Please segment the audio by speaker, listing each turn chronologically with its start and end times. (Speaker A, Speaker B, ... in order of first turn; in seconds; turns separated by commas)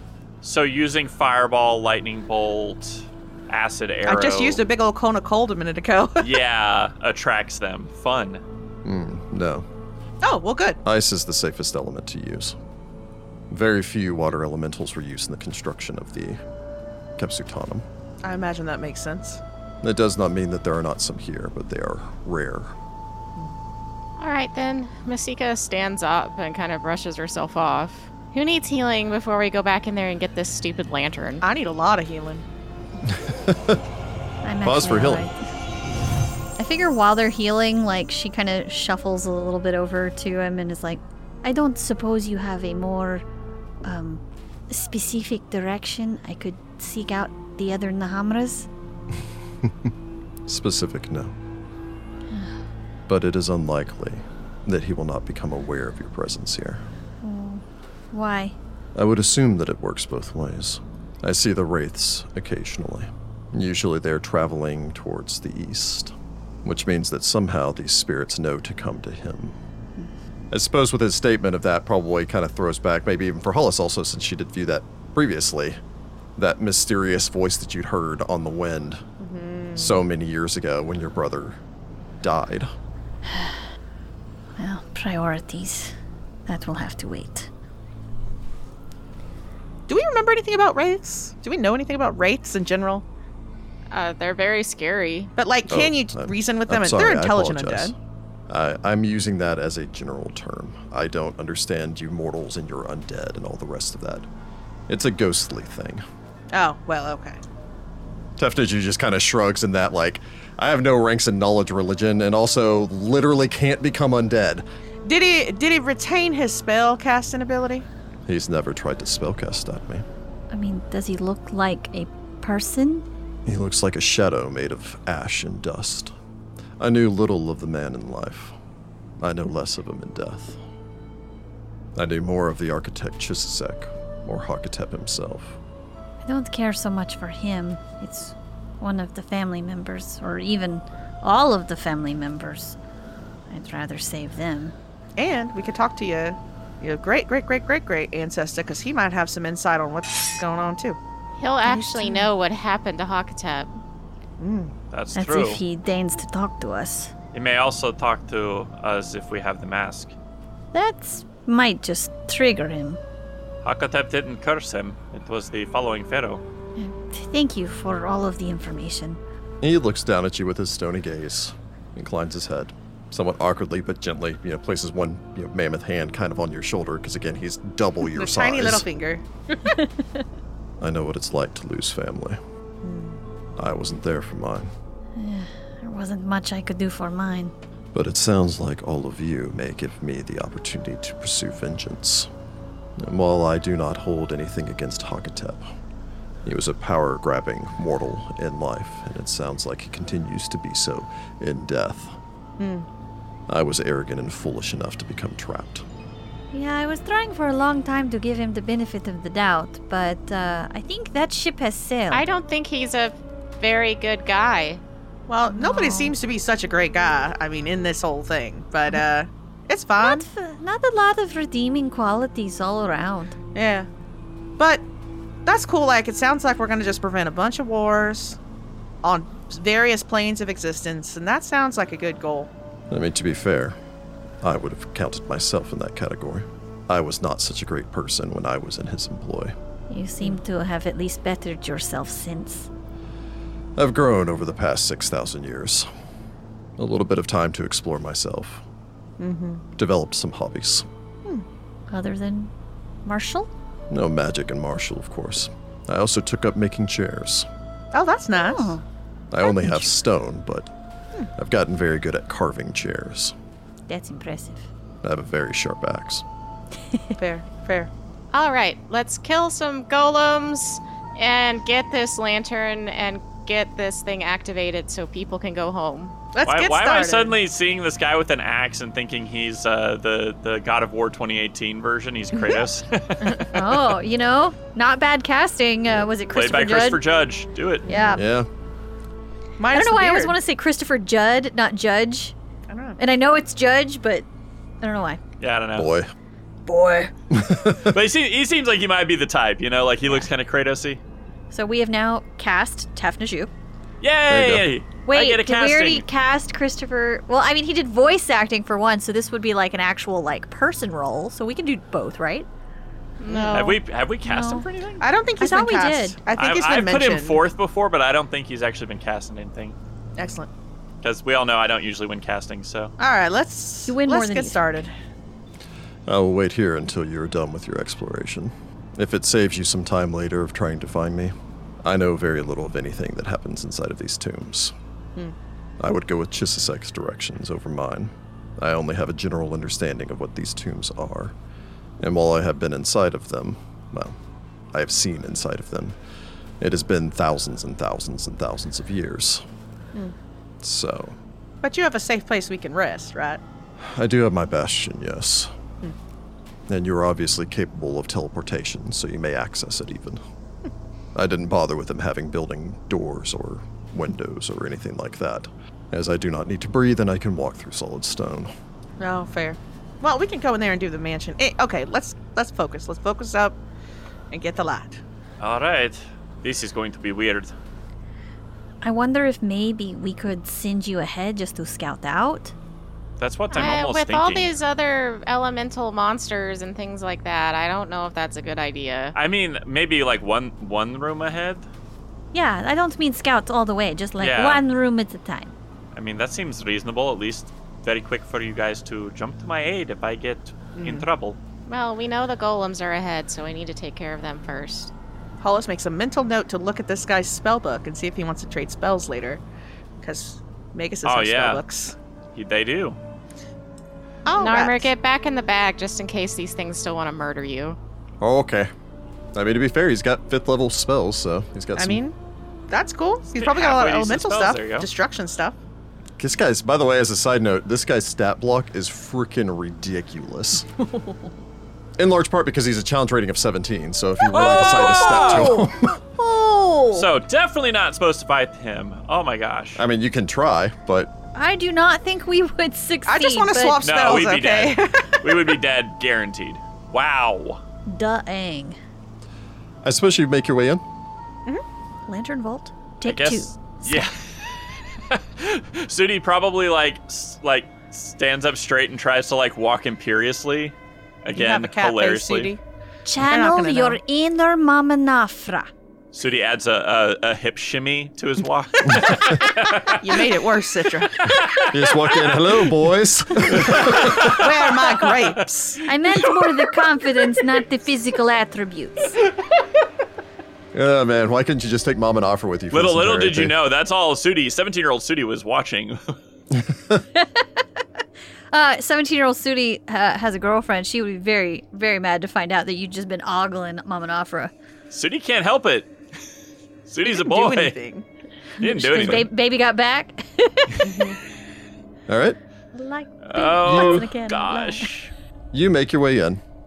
Speaker A: 0.4-4.6, Speaker B: 4.0-6.4, Speaker A: 6.2-8.4, Speaker C: 8.8-9.7, Speaker B: 10.2-10.8, Speaker C: 10.8-12.6, Speaker C: 13.5-16.4, Speaker C: 17.2-17.8, Speaker B: 18.2-19.4, Speaker C: 19.8-22.7, Speaker D: 24.2-31.4, Speaker B: 31.4-32.4, Speaker C: 33.0-33.8, Speaker E: 34.4-35.3, Speaker C: 34.6-35.3, Speaker E: 36.6-43.2, Speaker E: 43.8-48.7, Speaker C: 49.6-49.9, Speaker C: 50.5-51.3, Speaker C: 53.1-56.8, Speaker E: 57.2-58.5, Speaker C: 58.9-69.6, Speaker C: 70.5-75.8, Speaker C: 76.3-79.0, Speaker B: 79.2-80.0, Speaker C: 79.8-81.6, Speaker C: 82.2-82.7, Speaker E: 83.3-83.6, Speaker E: 84.6-85.9, Speaker E: 86.5-87.5, Speaker B: 89.9-93.0, Speaker D: 93.9-95.3, Speaker B: 95.4-97.9, Speaker C: 95.7-98.0, Speaker C: 98.5-104.3, Speaker C: 104.9-106.0, Speaker B: 106.5-107.4, Speaker C: 108.4-114.6, Speaker B: 115.0-117.9, Speaker C: 118.3-120.0, Speaker E: 120.5-123.0, Speaker C: 123.5-126.1, Speaker C: 126.8-128.6, Speaker C: 129.2-130.6, Speaker C: 131.9-135.6, Speaker E: 136.2-142.8, Speaker E: 143.5-144.7, Speaker B: 145.2-151.0, Speaker D: 151.4-153.7, Speaker B: 151.7-152.0, Speaker B: 154.4-154.7, Speaker A: 154.9-155.6, Speaker E: 155.1-157.1, Speaker A: 157.3-160.1, Speaker E: 160.7-163.0, Speaker A: 163.6-166.4, Speaker E: 166.8-169.2, Speaker C: 169.6-178.8, Speaker B: 178.1-179.2, Speaker E: 179.7-180.0, Speaker C: 180.8-182.4, Speaker B: 182.8-183.2, Speaker C: 183.6-184.7, Speaker E: 185.2-187.5, Speaker C: 187.9-192.3, Speaker C: 193.0-195.7, Speaker C: 196.4-202.2, Speaker B: 202.6-202.9, Speaker C: 203.5-205.8, Speaker E: 206.5-212.2, Speaker D: 212.1-214.8, Speaker B: 215.3-220.3, Speaker E: 215.5-216.1, Speaker E: 220.0-223.3, Speaker B: 223.5-223.9, Speaker B: 224.6-224.8, Speaker B: 225.4-228.4, Speaker B: 229.0-232.5, Speaker C: 232.9-233.8, Speaker C: 234.4-239.5, Speaker E: 239.9-242.7, Speaker C: 243.8-245.9, Speaker C: 246.8-248.6, Speaker B: 249.2-249.7, Speaker C: 249.8-250.8, Speaker E: 251.9-252.5, Speaker E: 253.1-253.5, Speaker C: 253.9-257.5, Speaker B: 257.9-258.8, Speaker E: 258.4-258.8, Speaker C: 259.3-260.7, Speaker E: 259.4-259.9, Speaker C: 261.4-263.3, Speaker E: 263.9-264.7, Speaker C: 265.0-266.2, Speaker B: 267.2-267.9, Speaker D: 268.3-276.1, Speaker B: 276.3-277.4, Speaker A: 276.4-283.7, Speaker B: 282.4-282.6, Speaker E: 283.5-287.0, Speaker A: 286.3-287.9, Speaker E: 287.8-288.2, Speaker C: 288.1-288.5, Speaker B: 289.6-290.4, Speaker E: 289.7-292.3, Speaker B: 292.7-293.0, Speaker E: 293.0-294.2, Speaker E: 294.8-295.2, Speaker A: 295.4-295.9, Speaker C: 295.8-296.1, Speaker E: 296.6-297.1, Speaker C: 297.3-297.9, Speaker A: 297.6-301.0, Speaker E: 301.5-303.5, Speaker A: 304.0-306.1, Speaker C: 304.3-304.7, Speaker E: 305.0-312.5, Speaker D: 313.2-313.8, Speaker B: 313.3-313.7, Speaker A: 313.5-315.0, Speaker E: 314.2-314.6, Speaker B: 315.0-317.4, Speaker E: 315.4-316.2, Speaker A: 316.3-319.7, Speaker B: 320.2-320.5, Speaker A: 321.0-322.9, Speaker B: 323.0-324.9, Speaker E: 323.9-324.6, Speaker C: 326.1-334.7, Speaker C: 335.8-341.3, Speaker C: 342.0-344.1, Speaker C: 344.7-345.9, Speaker C: 346.6-349.4, Speaker C: 350.6-351.2, Speaker B: 351.6-353.4, Speaker C: 353.8-355.5, Speaker C: 356.7-360.2, Speaker C: 361.1-368.5, Speaker B: 369.0-373.6, Speaker B: 374.3-375.0, Speaker A: 375.4-377.5, Speaker E: 378.8-382.5, Speaker A: 383.2-384.5, Speaker D: 383.5-389.1, Speaker A: 389.1-391.7, Speaker E: 392.3-395.5, Speaker A: 394.2-394.6, Speaker A: 395.9-401.4, Speaker B: 400.8-401.1, Speaker D: 401.7-404.9, Speaker B: 405.4-409.4, Speaker B: 410.0-411.9, Speaker A: 411.0-411.6, Speaker A: 412.3-413.0, Speaker B: 414.2-414.9, Speaker D: 414.4-417.8, Speaker C: 418.2-418.7, Speaker C: 419.3-422.0, Speaker B: 421.8-422.1, Speaker B: 422.7-425.6, Speaker A: 423.3-424.9, Speaker C: 426.2-430.7, Speaker C: 432.0-436.0, Speaker A: 434.3-435.6, Speaker E: 434.3-437.1, Speaker A: 436.9-439.8, Speaker C: 439.8-441.1, Speaker E: 441.3-443.8, Speaker B: 443.1-445.6, Speaker A: 443.8-447.6, Speaker E: 447.9-448.8, Speaker C: 449.8-450.8, Speaker E: 452.1-454.1, Speaker A: 453.0-462.5, Speaker B: 461.3-462.6, Speaker E: 463.0-465.7, Speaker B: 463.2-464.0, Speaker A: 466.1-470.4, Speaker C: 468.9-469.2, Speaker B: 469.9-471.2, Speaker A: 471.1-472.7, Speaker C: 471.7-474.3, Speaker A: 473.4-475.4, Speaker B: 474.0-475.8, Speaker E: 475.8-479.2, Speaker A: 476.1-476.7, Speaker C: 480.7-483.6, Speaker A: 482.7-486.2, Speaker C: 486.5-487.0, Speaker E: 487.1-487.6, Speaker E: 488.5-494.5, Speaker A: 494.9-495.9, Speaker A: 496.9-497.8, Speaker B: 497.0-498.1, Speaker E: 498.6-501.1, Speaker A: 498.6-499.3, Speaker B: 500.8-501.2, Speaker C: 502.1-502.4, Speaker E: 502.7-504.9, Speaker A: 503.2-505.1, Speaker C: 503.6-504.1, Speaker C: 505.5-506.4